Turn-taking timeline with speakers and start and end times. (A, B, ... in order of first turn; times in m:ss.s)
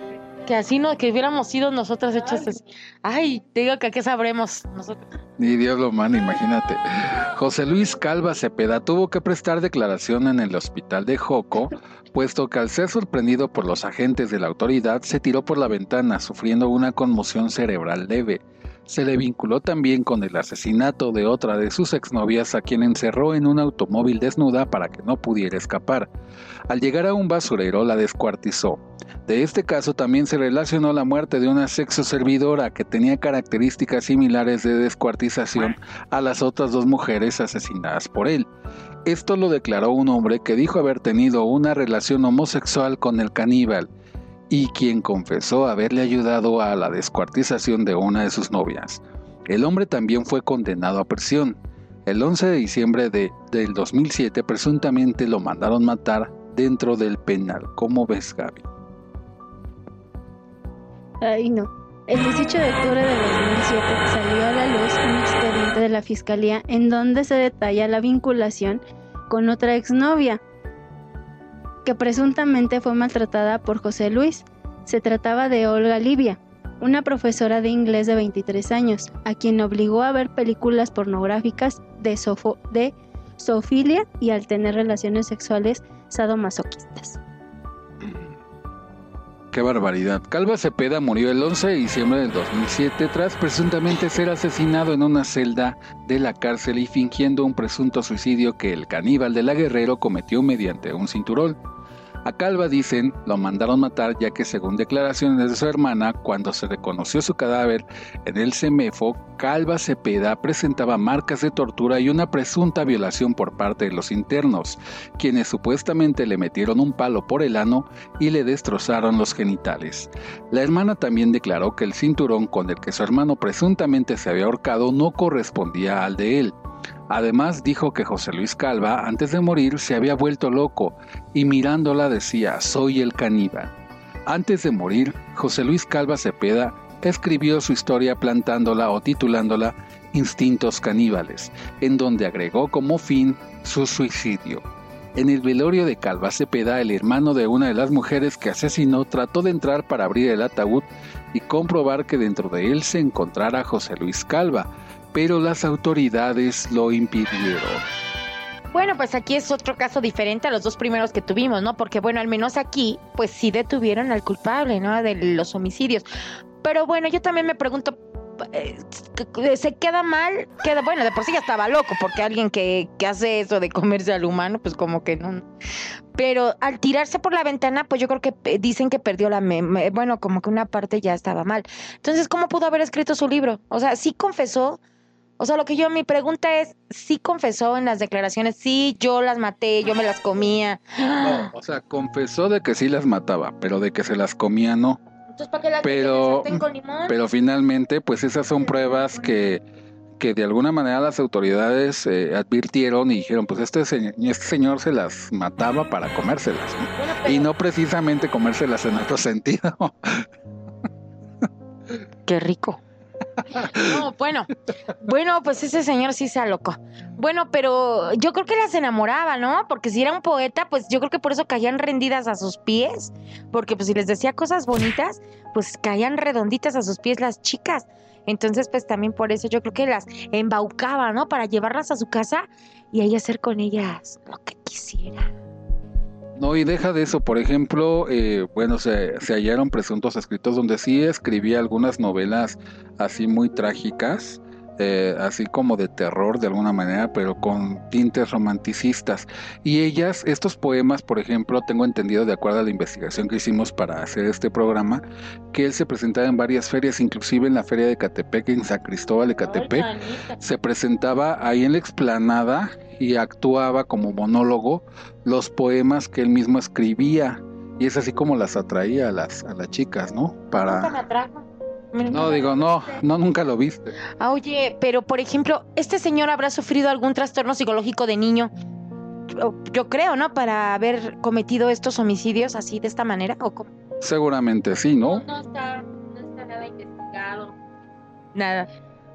0:00.4-0:05.1 A
0:05.4-0:26.1 B
0:26.7-0:38.5 B
0:39.1-0:43.9 B
0:44.5-0:58.6 B
1:01.2-1:10.4 C
1:11.8-1:27.2 C
1:29.5-1:41.6 B
1:42.2-2:06.6 B
2:07.1-2:13.8 B
2:14.3-2:24.6 B
2:25.2-2:37.8 B
2:38.7-2:46.1 A
2:46.6-2:55.5 A
2:56.2-3:04.8 A
3:05.4-3:11.5 A
3:11.2-3:15.0 B
3:15.3-3:17.2 A
3:15.8-3:19.6 B
3:20.2-3:30.3 B
3:27.0-3:27.5 A
3:32.3-3:32.8 A
3:33.6-3:55.3 A
3:56.4-4:30.9 B
4:19.4-4:20.4 A
4:30.6-4:33.0 A
4:32.1-4:34.0 B
4:34.2-4:38.5 A
4:39.3-4:43.7 A
4:44.0-4:45.3 B
4:45.0-4:47.6 A
4:48.4-4:48.7 A